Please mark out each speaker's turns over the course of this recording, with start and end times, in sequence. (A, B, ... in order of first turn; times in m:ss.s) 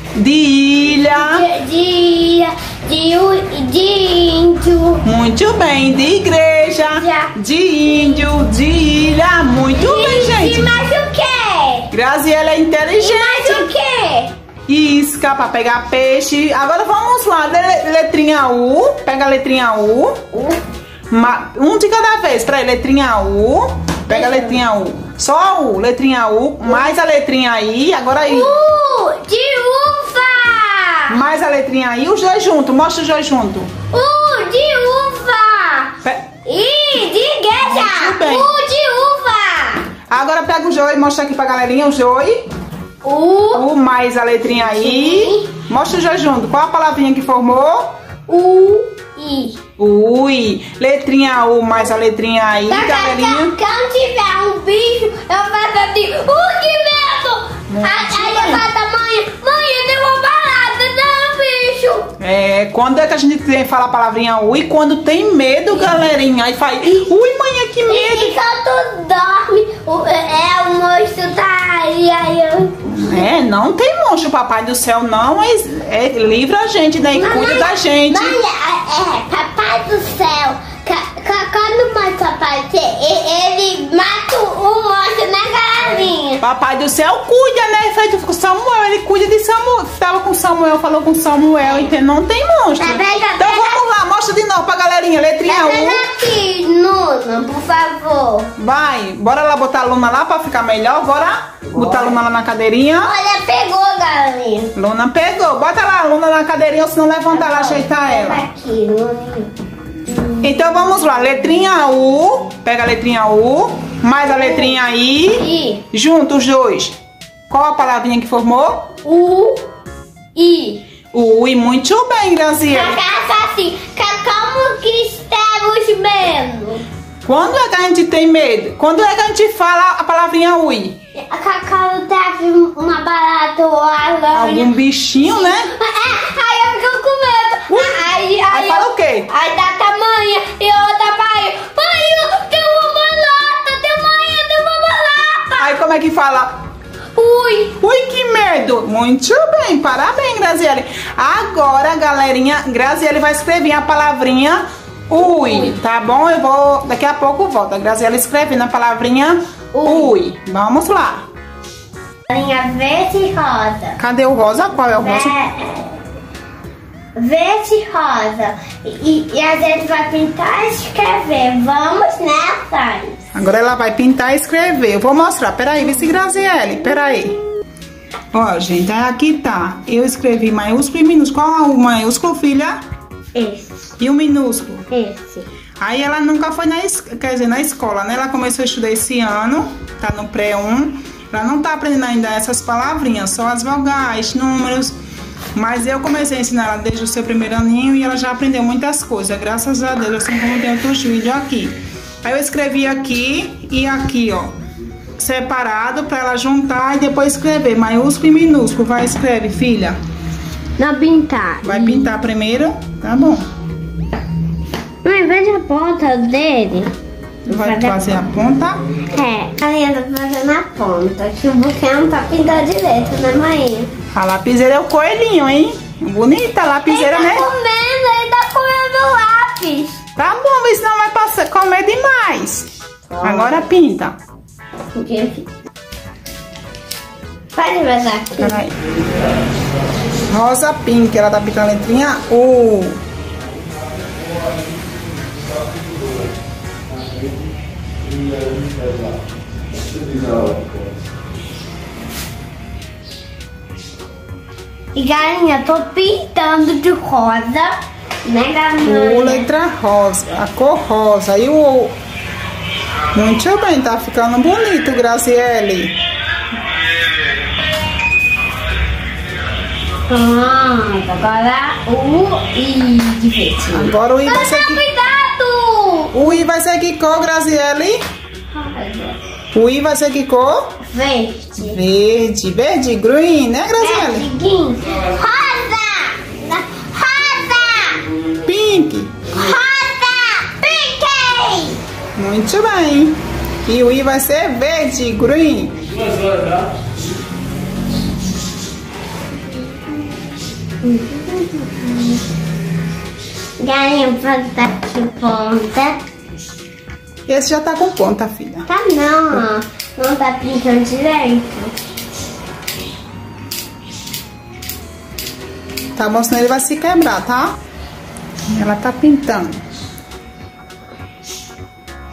0:00.2-0:01.4 A
0:01.0-0:05.0 B
0:05.0-0:10.7 A
0:06.9-0:07.3 B
0:09.7-0:11.9 B
0:11.9-0:13.7 A
0:13.0-0:14.3 B
0:14.7-0:20.2 A
0:20.3-0:20.6 B
0:21.1-0:28.5 A
0:24.1-0:24.6 B
0:26.6-0:26.9 B
0:28.2-0:31.2 B
0:31.1-0:33.7 A
0:33.9-0:39.9 B
0:37.6-0:38.5 A
0:40.1-0:42.4 A
0:43.0-0:43.6 B
0:43.5-0:47.9 A
0:44.7-0:45.5 B
0:48.3-0:49.6 B
0:49.8-0:53.5 A
0:52.7-1:02.1 B
0:57.7-0:58.6 A
1:02.2-1:08.4 A
1:07.9-1:13.3 B
1:12.8-1:18.4 A
1:17.1-1:26.4 B
1:26.4-1:36.0 A
1:31.6-1:31.9 B
1:32.8-1:33.8 B
1:35.4-1:38.5 B
1:38.6-1:43.1 A
1:43.0-1:44.7 B
1:44.8-1:48.4 A
1:47.3-1:49.5 B
1:50.1-1:50.5 B
1:50.4-1:57.0 A
1:55.3-1:55.8 B
1:57.5-1:58.9 A
1:59.0-1:59.7 B
2:00.3-2:00.8 B
2:01.1-2:03.0 A
2:02.7-2:06.8 B
2:07.2-2:11.0 A
2:11.1-2:25.7 B
2:14.3-2:15.7 A
2:17.7-2:19.3 A
2:25.6-2:26.5 A
2:27.2-2:27.8 B
2:27.8-2:41.2 A
2:35.2-2:35.8 B
2:39.7-2:40.1 B
2:42.3-2:44.0 B
2:44.0-2:45.3 A
2:44.9-2:46.0 B
2:47.1-2:53.3 B
2:53.3-2:57.3 A
2:56.5-2:57.2 B
2:58.3-3:02.8 A
3:03.3-3:03.9 B
3:04.0-3:04.9 A
3:04.9-3:05.4 B
3:05.8-3:15.0 A
3:15.5-3:24.5 A
3:25.2-3:30.0 A
3:30.8-3:32.1 B
3:31.6-3:33.5 A
3:35.0-3:36.9 B
3:37.4-3:38.2 B
3:37.4-3:38.8 A
3:39.1-3:43.9 B
3:44.1-3:47.4 A
3:46.9-3:50.0 B
3:50.2-3:52.7 A
3:53.1-3:53.7 B
3:53.2-3:54.2 A
3:54.9-3:55.4 B
3:57.5-3:58.6 B
3:58.4-3:58.7 A
4:00.3-4:03.0 A
4:14.9-4:19.5 B
4:18.8-4:21.9 A
4:23.1-4:25.9 A
4:30.1-4:36.4 B
4:33.7-4:34.8 A
4:36.1-4:38.0 A
4:38.5-4:39.2 B
4:39.5-4:40.8 A
4:40.8-4:41.8 B
4:41.6-4:44.3 A
4:43.8-4:48.0 B
4:48.4-4:49.1 A
4:49.3-4:51.8 B
4:52.2-4:55.8 A
5:00.8-5:02.2 B
5:03.6-5:06.0 B
5:07.3-5:08.7 A
5:08.7-5:11.7 B
5:16.0-5:17.6 A
5:18.5-5:19.6 A